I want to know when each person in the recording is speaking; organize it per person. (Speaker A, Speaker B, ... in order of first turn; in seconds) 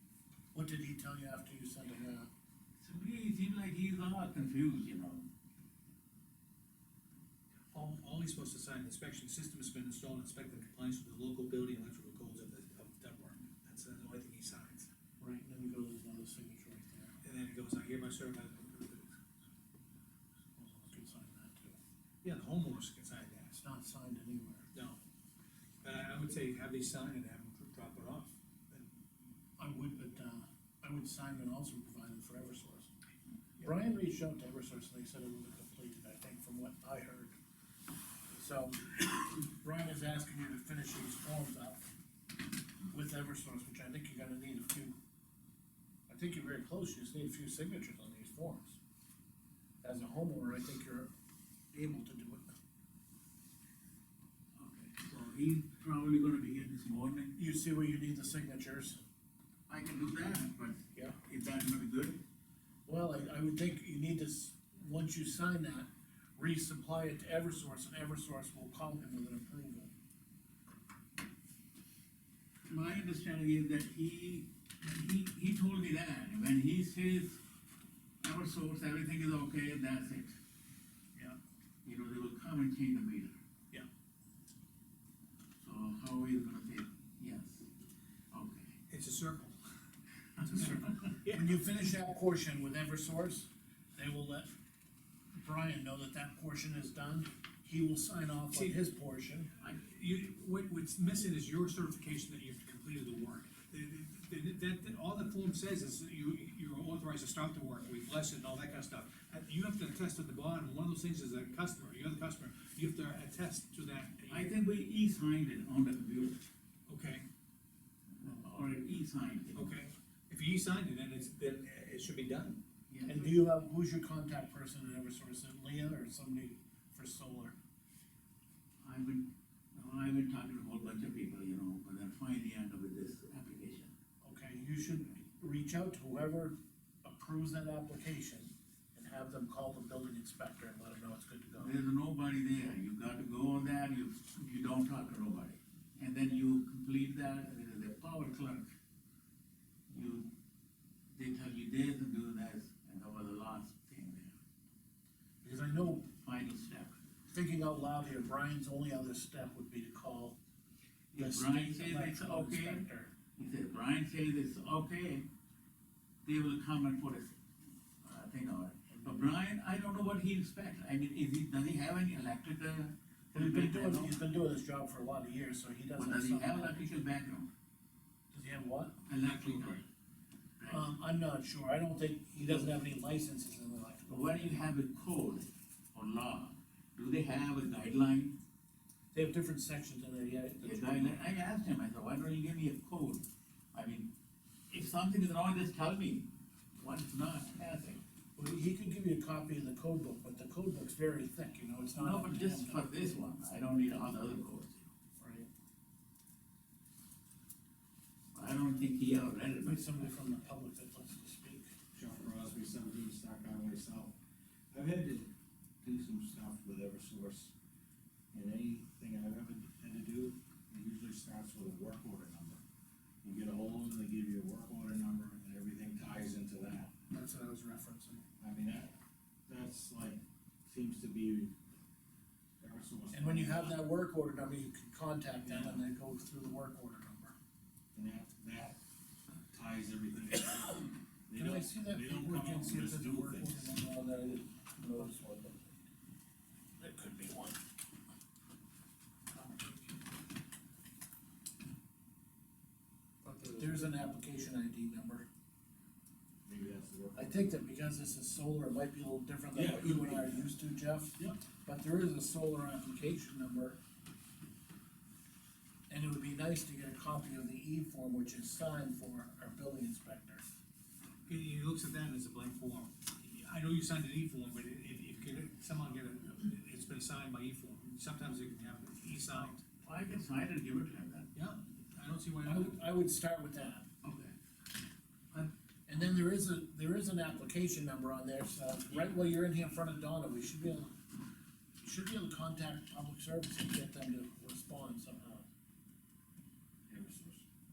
Speaker A: 0.5-2.3, 15.2-17.1, 20.6-21.8, 23.5-24.7, 29.6-32.9, 33.6-37.4, 38.3-41.8, 42.9-44.9, 46.1-48.8, 49.8-51.1, 51.7-52.5, 57.4-59.0, 62.9-69.9, 90.5-94.5, 95.3-99.5, 123.0-127.5, 134.2-141.7, 155.4-156.1, 157.3-160.4, 161.1-163.1, 168.9-169.3, 173.3-177.0, 178.3-179.0, 180.7-184.7, 189.1-191.3, 198.3-202.9, 205.2-205.5, 209.6-211.7, 227.1-228.2, 233.1-237.3, 240.8-245.7, 246.8-247.6, 253.5-255.3, 257.1-263.8, 265.9-270.4, 282.4-283.8, 285.9-290.9, 291.8-295.4
Speaker B: 2.8-5.3, 54.5-57.4, 59.7-62.2, 72.7-77.4, 78.2-80.4, 81.8-83.4, 85.6-87.7, 88.3-88.8, 114.3-116.4, 118.2-119.7, 122.9-123.3, 128.8-133.9, 141.6-148.7, 149.9-150.3, 151.1-154.3, 156.0-157.0, 161.1-165.3, 166.2-167.4, 168.0-174.2, 176.0-177.5, 179.1-179.8, 180.6-180.8, 184.1-188.4, 190.6-194.1, 194.7-198.0, 201.9-204.9, 208.3-210.1, 279.8-281.3, 284.0-284.3
Speaker C: 7.7-14.9, 17.2-19.2, 22.2-23.6, 24.7-25.0, 25.8-28.9, 88.9-89.6, 90.4-91.6, 98.5-98.8, 99.6-114.5, 116.9-117.2, 119.5-122.6, 271.2-279.6, 281.3-282.8
Speaker D: 211.9-214.2, 214.7-217.5, 218.3-222.6, 223.2-226.9, 228.4-228.9, 229.5-231.6, 232.6-233.8, 235.5-235.8, 237.9-238.8, 239.5-243.8, 256.4-257.5, 259.5-260.5, 296.9-297.4